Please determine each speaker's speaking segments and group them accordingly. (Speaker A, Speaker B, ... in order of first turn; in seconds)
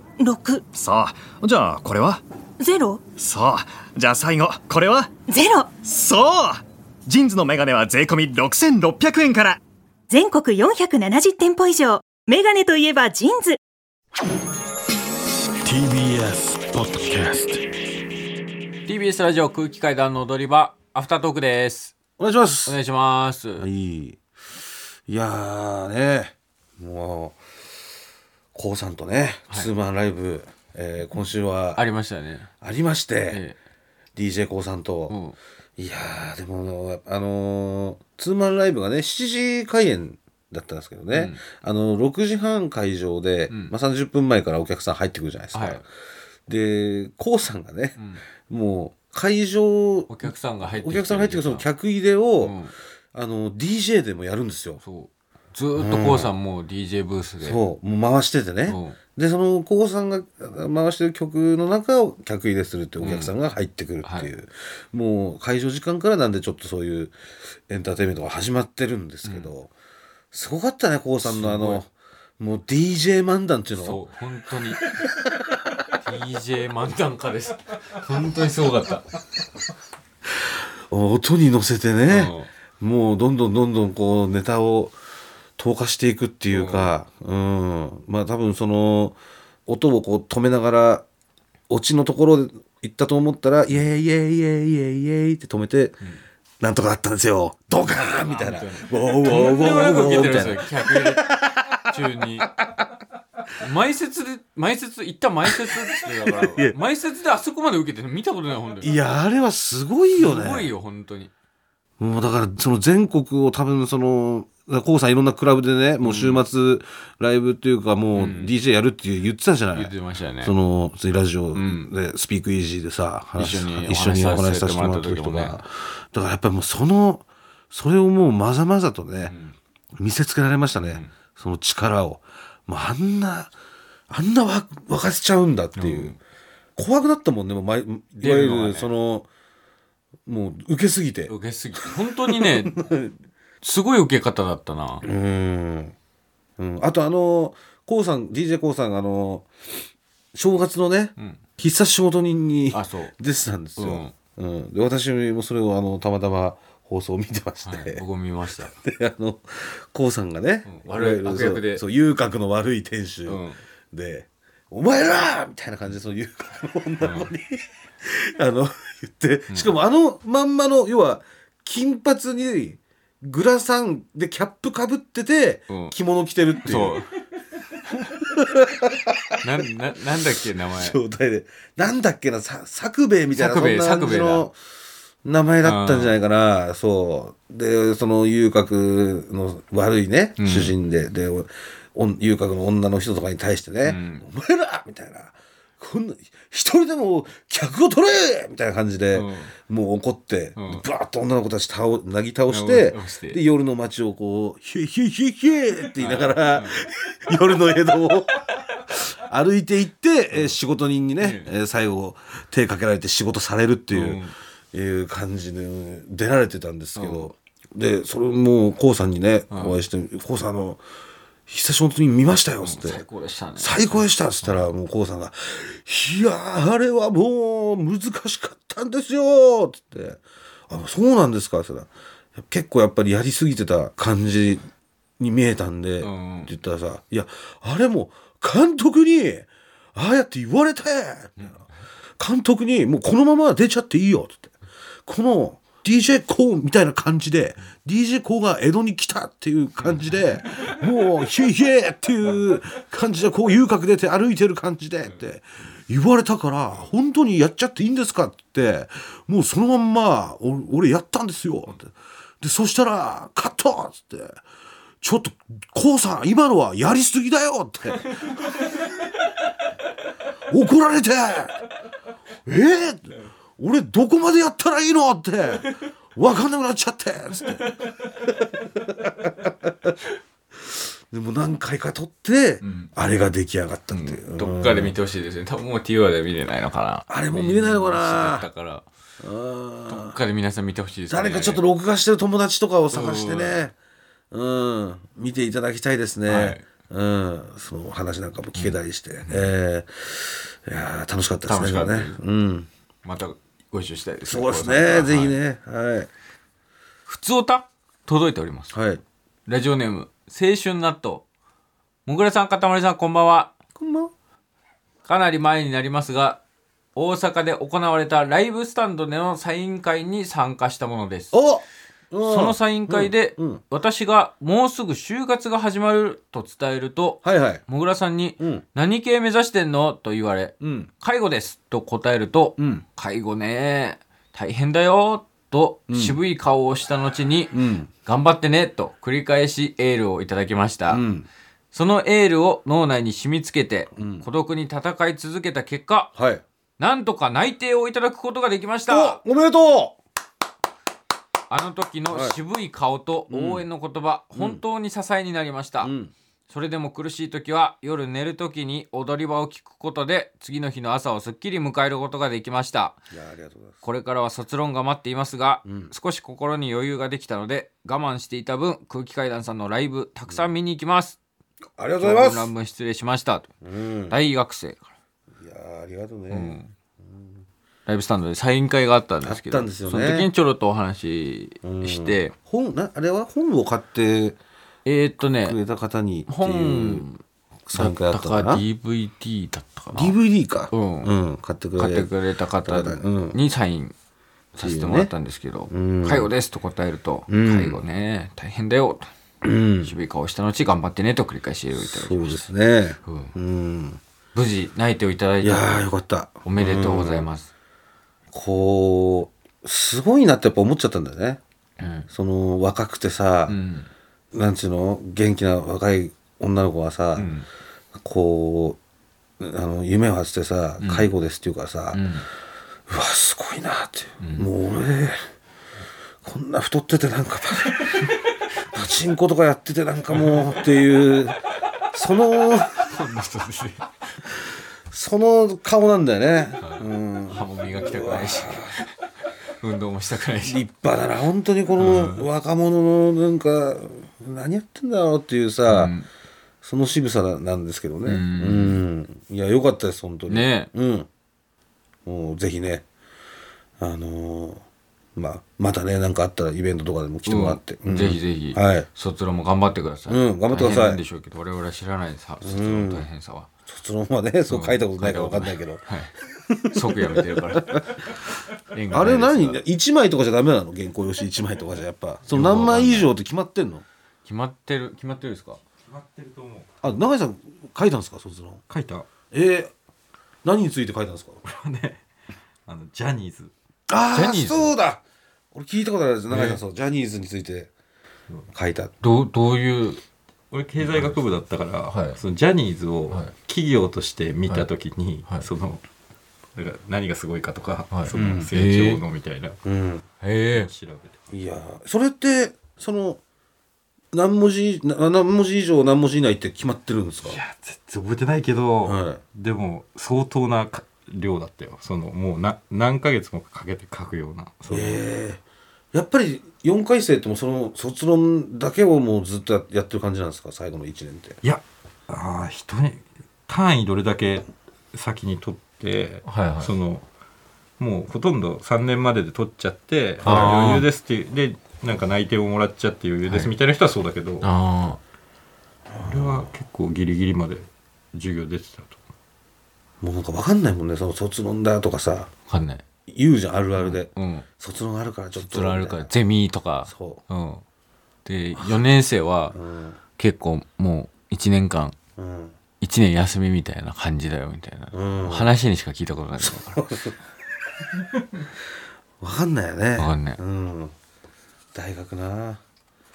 Speaker A: 0.2-0.6, 2.6-3.0, 5.3-5.7, 10.1-13.6
Speaker B: 0.6-2.2, 3.1-9.6
Speaker C: 15.6-17.6, 22.2-22.8, 23.6-24.2, 25.1-27.4, 28.5-31.8, 32.6-33.4, 34.1-35.2, 35.8-45.9, 46.5-52.6, 53.1-54.8, 55.8-56.3, 57.4-67.2, 67.7-69.7, 70.3-74.0, 74.8-75.2, 80.9-85.0, 85.6-91.0, 91.7-96.0, 96.6-102.5, 106.2-106.8, 108.8-110.7, 112.0-129.3, 130.0-133.5, 134.1-136.2, 136.8-139.3, 140.2-143.1, 145.0-145.9, 146.6-149.5, 150.3-177.0, 178.1-179.3, 180.7-184.6, 185.2-220.8, 221.5-223.0, 223.6-234.7, 235.2-241.6, 242.2-244.5, 245.0-264.4, 265.0-268.1, 270.5-271.6, 272.4-279.9, 281.1-284.9, 287.1-288.5, 289.2-290.2, 291.1-293.7, 294.3-302.7, 304.2-306.1, 308.7-309.0, 313.8-314.1, 321.3-323.6, 327.2-327.6, 328.4-328.6, 330.6-330.9, 332.6-332.8, 335.9-336.2, 337.5-337.9, 340.9-341.3, 343.9-344.3, 346.1-346.4, 348.9-350.0, 352.1-352.4, 353.3-353.6, 354.3-354.6, 355.8-356.1, 363.1-363.8, 365.6-365.9, 370.3-370.5, 371.8-372.5, 373.6-374.2, 375.4-377.4, 379.2-380.3, 381.6-384.4, 385.2-387.1, 387.6-388.6, 389.9-393.4, 394.6-395.1, 395.7-396.3, 397.3-397.8, 399.4-399.9, 401.8-404.0, 405.4-407.3, 408.3-411.4, 412.1-413.6, 414.3-417.4, 417.9-418.8, 419.4-422.1, 422.9-425.2, 426.2-428.1, 428.7-432.9, 434.9-438.8, 440.4-445.9, 446.6-451.1, 452.1-452.8, 453.8-454.6, 455.1-458.9, 460.1-461.0, 462.4-463.1, 463.7-465.9, 466.5-467.9, 468.9-473.8, 476.8-478.6, 479.3-479.7, 480.4-481.4, 483.9-487.7, 488.5-488.9, 499.6-500.0, 501.3-503.2, 504.1-507.4, 508.8-509.2, 514.7-515.4, 515.9-521.4, 530.2-530.5, 535.9-536.5, 540.0-542.3, 543.1-546.1, 546.8-547.2, 549.5-550.0, 552.2-552.6, 554.9-555.5, 556.4-557.2, 559.2-560.9, 561.7-562.6
Speaker D: 18.8-21.9, 22.6-23.7, 31.7-32.5, 33.3-33.6, 35.1-35.4, 41.1-41.4, 43.5-43.7, 45.5-45.8, 48.0-48.2, 50.1-51.7, 52.4-52.7, 54.8-57.6, 58.6-59.0, 63.0-63.3, 64.0-64.3, 69.2-69.5, 71.2-71.8, 73.8-74.8, 76.0-79.0, 82.1-82.5, 86.5-87.0, 97.9-101.3, 101.8-102.5, 103.6-109.0, 110.2-111.3, 116.0-116.4, 118.1-118.5, 119.7-120.5, 121.5-121.9, 123.3-125.6, 129.2-129.6, 135.8-136.2, 138.2-138.9, 141.3-142.8, 143.6-145.1, 152.7-153.1, 153.8-154.1, 157.6-158.7, 160.7-161.8, 163.2-163.6, 167.0-167.3, 169.5-169.8, 175.7-175.9, 176.6-177.2, 177.9-178.2, 179.4-181.0, 183.3-184.5, 185.6-186.2, 190.4-190.7, 193.8-194.2, 199.1-199.5, 200.6-200.8, 202.5-203.4, 206.0-206.8, 210.3-210.6, 211.2-211.5, 213.9-214.3, 216.9-217.3, 219.5-219.8, 222.6-224.7, 236.0-236.5, 249.8-250.4, 282.6-282.9, 283.9-288.9, 289.9-291.6, 292.9-293.6, 296.2-296.6, 298.6-299.5, 301.4-302.2, 303.0-305.4, 307.1-308.8, 309.5-311.2, 312.1-313.5, 315.0-316.4, 316.9-321.4, 322.2-341.0, 341.7-346.1, 346.8-349.2, 351.5-355.9, 356.5-363.0, 363.8-371.2, 372.0-373.5, 374.1-374.9, 376.3-376.7, 377.9-382.3, 384.8-385.6, 386.3-387.2, 387.7-390.1, 390.7-391.1, 391.8-393.9, 394.5-399.1, 399.8-402.5, 403.0-403.3, 404.3-405.8, 406.4-407.5, 411.8-412.1, 413.5-413.9, 417.1-417.5, 420.8-421.1, 421.9-422.2, 424.2-424.5, 430.1-430.5, 432.7-433.9, 436.6-438.9, 439.5-440.6, 441.8-442.3, 445.6-446.1, 448.1-448.8, 450.3-450.7, 457.2-463.5, 464.5-466.1, 466.7-468.0, 468.7-469.6, 472.3-473.1, 474.2-475.6, 484.1-484.7, 486.3-486.6, 489.0-490.0, 490.8-491.2, 491.9-492.2, 493.1-493.3, 497.9-499.0, 500.2-500.7, 526.2-526.7, 530.2-530.9, 533.2-533.5, 534.4-535.0, 542.5-542.8, 543.8-544.5, 545.4-547.6, 548.2-549.6, 550.1-552.0, 552.8-556.8, 560.0-560.4
Speaker E: 475.8-476.9, 478.7-479.1, 481.4-482.0, 482.6-483.5, 490.5-495.8, 496.5-499.6, 500.5-501.1, 507.2-515.0, 521.4-527.0, 527.8-534.5, 536.0-538.9